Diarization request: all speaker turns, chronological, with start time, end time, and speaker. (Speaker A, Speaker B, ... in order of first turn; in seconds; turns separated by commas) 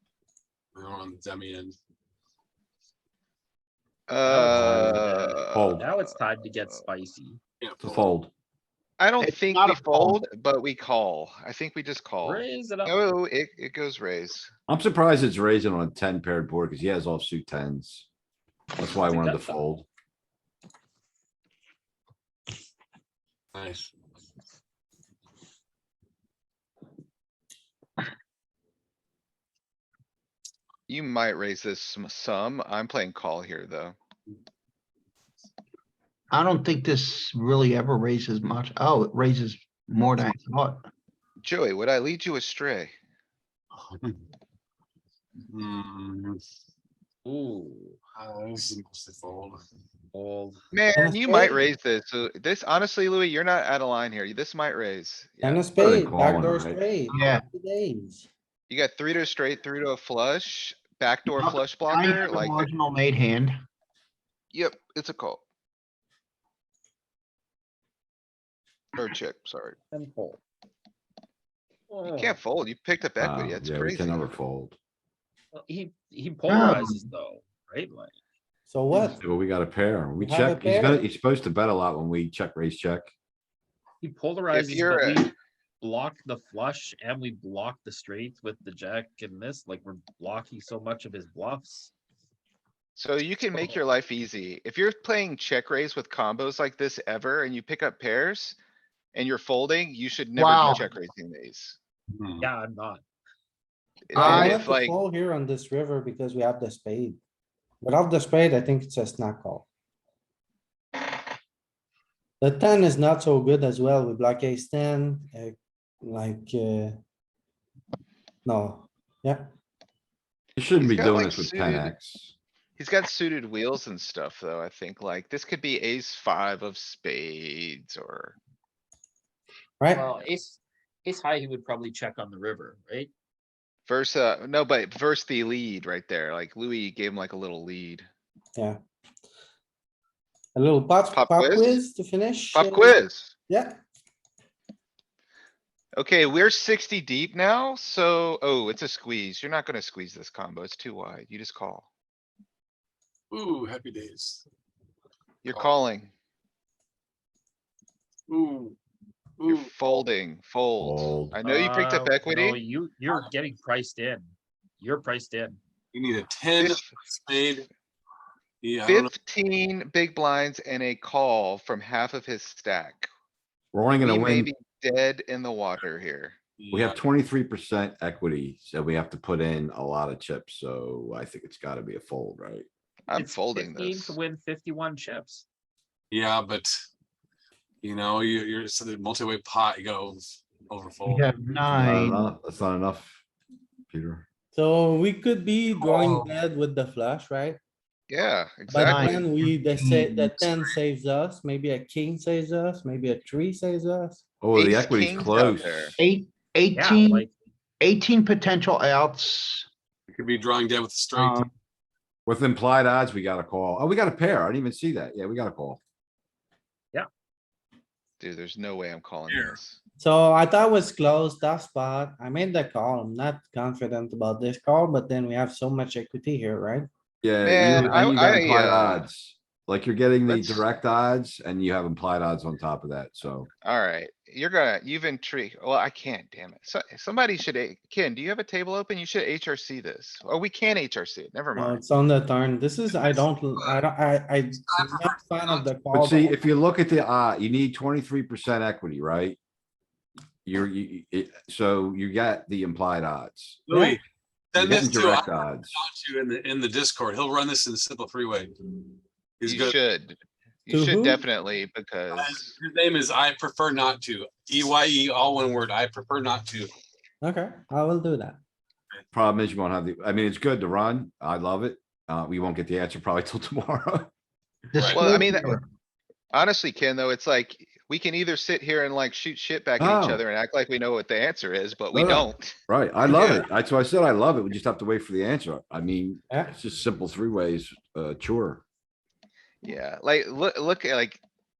Speaker A: 0.7-1.7, Speaker B: 4.1-6.1, Speaker C: 4.2-7.4, Speaker D: 4.4-5.9, Speaker A: 7.6-8.1, Speaker D: 7.8-8.3, Speaker B: 9.0-14.5, Speaker E: 9.2-10.2, Speaker C: 12.2-13.0, Speaker D: 14.7-18.1, Speaker D: 18.8-19.9, Speaker C: 19.0-19.6, Speaker A: 23.5-23.9, Speaker B: 30.9-34.0, Speaker E: 36.3-40.9, Speaker B: 41.4-42.9, Speaker A: 43.7-44.2, Speaker A: 45.5-46.4, Speaker C: 47.2-48.0, Speaker A: 48.1-49.6, Speaker C: 50.1-50.6, Speaker B: 50.7-55.8, Speaker F: 51.0-51.6, Speaker F: 55.4-58.3, Speaker D: 55.8-56.8, Speaker E: 57.1-57.4, Speaker B: 58.7-62.7, Speaker E: 61.4-63.5, Speaker B: 64.5-65.4, Speaker B: 68.9-69.8, Speaker C: 69.9-70.4, Speaker C: 71.9-72.4, Speaker B: 72.1-74.3, Speaker D: 73.2-74.8, Speaker C: 75.5-78.1, Speaker E: 76.5-77.0, Speaker F: 78.7-79.2, Speaker D: 78.9-83.1, Speaker F: 80.2-81.0, Speaker C: 84.0-91.9, Speaker B: 84.5-85.3, Speaker B: 93.0-98.6, Speaker B: 99.1-101.8, Speaker E: 100.3-100.8, Speaker A: 102.2-102.5, Speaker C: 102.4-103.0, Speaker B: 104.1-105.0, Speaker E: 104.1-104.6, Speaker F: 104.1-107.2, Speaker F: 107.8-109.6, Speaker F: 112.4-116.9, Speaker F: 118.4-119.5, Speaker D: 120.5-122.3, Speaker B: 120.8-121.9, Speaker B: 122.8-128.3, Speaker C: 129.9-133.1, Speaker B: 133.9-138.1, Speaker F: 140.5-143.8, Speaker B: 141.1-141.8, Speaker B: 142.5-143.3, Speaker B: 145.9-151.9, Speaker A: 153.3-154.4, Speaker B: 155.4-156.1, Speaker A: 155.4-155.7, Speaker A: 158.3-158.8, Speaker A: 159.4-159.7, Speaker B: 159.5-162.6, Speaker D: 160.8-161.4, Speaker C: 161.4-165.6, Speaker A: 165.9-167.7, Speaker B: 166.6-166.8, Speaker A: 168.6-169.1, Speaker B: 168.8-173.1, Speaker D: 173.7-174.5, Speaker B: 174.0-176.4, Speaker A: 176.6-177.0, Speaker D: 176.7-182.7, Speaker B: 183.1-184.1, Speaker C: 183.1-185.4, Speaker A: 186.1-186.7, Speaker A: 187.8-191.4, Speaker E: 191.0-192.2, Speaker D: 191.7-193.2, Speaker D: 193.9-194.2, Speaker F: 194.5-197.6, Speaker A: 195.8-196.3, Speaker B: 198.1-199.2, Speaker F: 198.7-204.2, Speaker E: 198.8-200.4, Speaker D: 204.4-205.9, Speaker B: 204.5-205.9, Speaker E: 206.0-207.2, Speaker C: 206.7-207.3, Speaker E: 207.8-209.7, Speaker A: 210.1-211.5, Speaker D: 212.2-215.8, Speaker B: 218.2-219.8, Speaker A: 219.3-219.6, Speaker F: 220.0-226.9, Speaker D: 227.2-233.5, Speaker B: 227.4-229.1, Speaker B: 230.3-230.6, Speaker B: 233.6-241.8, Speaker F: 241.6-246.3, Speaker A: 244.7-245.6, Speaker D: 245.9-249.4, Speaker D: 250.4-253.6, Speaker A: 253.7-254.0, Speaker F: 253.7-254.0, Speaker A: 254.5-258.5, Speaker D: 254.5-255.8, Speaker A: 259.4-259.8, Speaker B: 259.4-262.5, Speaker F: 260.7-261.2, Speaker A: 262.1-266.7, Speaker F: 267.2-268.4, Speaker D: 269.1-274.1, Speaker E: 274.7-275.6, Speaker A: 274.7-275.1, Speaker B: 274.9-275.5, Speaker B: 276.3-283.4, Speaker D: 279.8-280.2, Speaker D: 281.9-288.6, Speaker F: 286.3-286.6, Speaker B: 289.6-291.2